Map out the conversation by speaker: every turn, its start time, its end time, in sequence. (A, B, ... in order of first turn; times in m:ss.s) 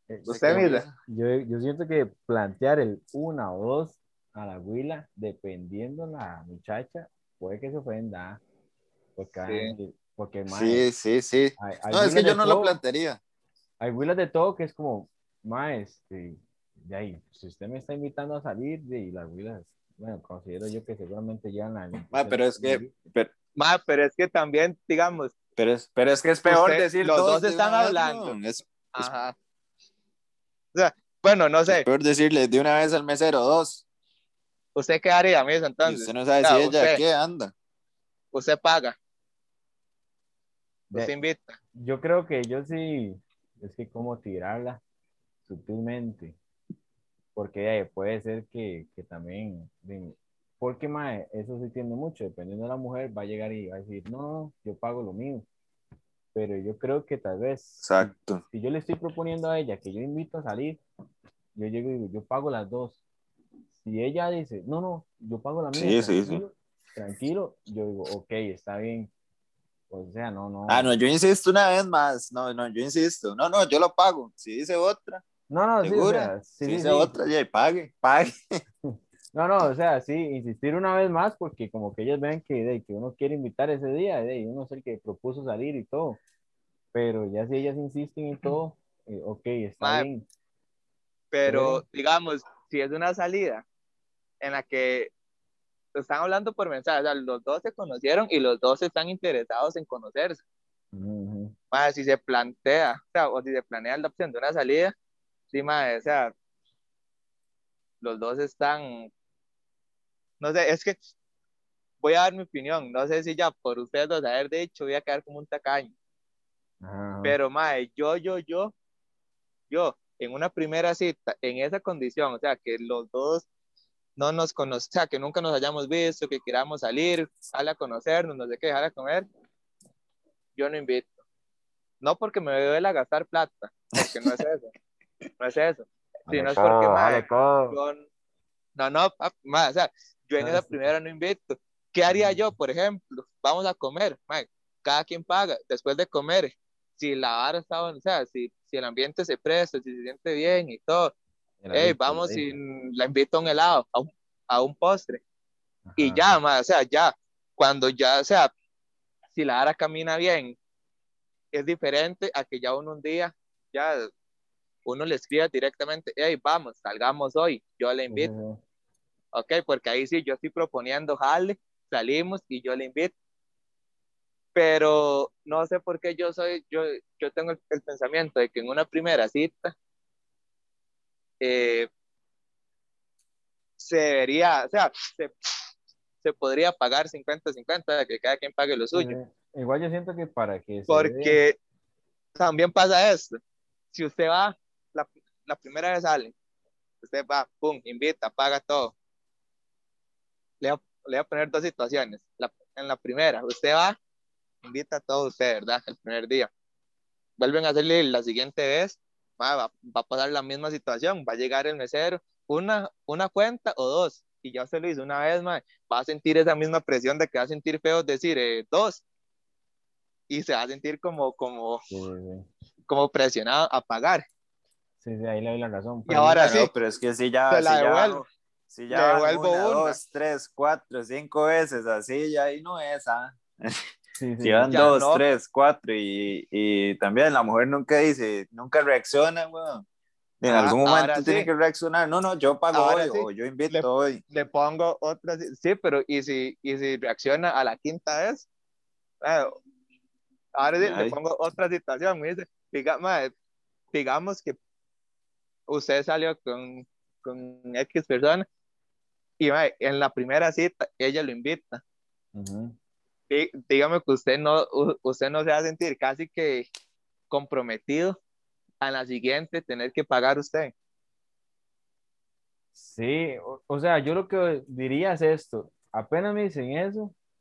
0:00.1-0:08.4 A
0:00.3-0:00.8 B
0:00.4-0:00.9 C
0:09.2-0:10.8 A
0:09.5-0:09.7 B
0:10.5-0:13.2 C
0:11.6-0:12.8 A
0:13.8-0:22.9 A
0:22.1-0:23.3 C
0:23.6-0:25.3 B
0:25.6-0:29.1 C
0:26.5-0:28.4 B
0:29.0-0:29.3 B
0:30.8-0:31.8 B
0:31.7-0:33.8 C
0:34.8-0:37.0 B
0:35.8-0:37.5 C
0:38.3-0:39.0 B
0:40.9-0:41.6 B
0:41.8-0:44.8 A
0:45.5-0:46.4 A
0:47.3-0:55.5 A
0:56.3-1:00.8 A
0:57.8-0:58.4 C
1:01.5-1:03.0 A
1:03.8-1:09.1 A
1:05.8-1:06.4 C
1:09.9-1:10.9 A
1:10.7-1:15.2 C
1:15.5-1:17.2 A
1:15.8-1:18.6 C
1:18.9-1:26.2 A
1:26.9-1:30.2 A
1:29.8-1:30.1 B
1:31.3-1:33.6 B
1:31.4-1:31.8 A
1:34.4-1:35.1 B
1:36.0-1:40.4 B
1:40.9-1:41.5 A
1:41.7-1:44.9 B
1:45.5-1:46.3 B
1:48.0-1:49.1 B
1:50.4-1:51.0 B
1:52.0-1:55.9 B
1:56.8-1:57.4 A
1:57.2-1:58.7 B
1:59.7-2:03.5 B
2:04.2-2:09.3 B
2:10.6-2:11.2 B
2:12.0-2:14.7 B
2:15.4-2:18.1 B
2:16.3-2:17.7 A
2:18.8-2:31.1 B
2:20.4-2:20.9 A
2:22.1-2:22.4 A
2:31.6-2:32.6 A
2:31.7-2:35.2 B
2:35.8-2:36.4 A
2:36.0-2:38.5 B
2:39.3-2:40.6 B
2:41.5-2:44.1 B
2:44.8-2:48.3 B
2:48.1-2:48.6 A
2:49.3-2:53.1 B
2:54.5-2:59.7 B
3:01.4-3:01.9 B
3:03.8-3:05.5 B
3:06.2-3:09.2 B
3:08.9-3:11.4 A
3:10.9-3:11.5 B
3:12.4-3:13.4 B
3:13.9-3:16.3 B
3:17.0-3:18.9 B
3:20.6-3:24.0 B
3:24.6-3:26.5 B
3:27.4-3:39.0 B
3:40.3-3:41.8 B
3:41.9-3:42.5 A
3:42.9-3:44.3 B
3:45.0-3:46.4 A
3:46.1-3:46.7 B
3:46.4-3:53.9 C
3:47.5-3:48.2 B
3:48.9-3:50.0 B
3:54.2-3:54.9 A
3:54.4-3:59.8 C
3:54.7-3:55.2 B
4:00.4-4:04.2 C
4:00.5-4:01.5 B
4:02.7-4:08.5 B
4:09.2-4:09.5 B
4:10.6-4:13.3 B
4:10.8-4:11.2 C
4:13.9-4:14.6 B
4:15.7-4:18.5 B
4:19.4-4:21.8 B
4:22.3-4:22.8 A
4:23.3-4:26.7 B
4:27.3-4:28.2 B
4:28.8-4:30.7 B
4:32.8-4:37.1 A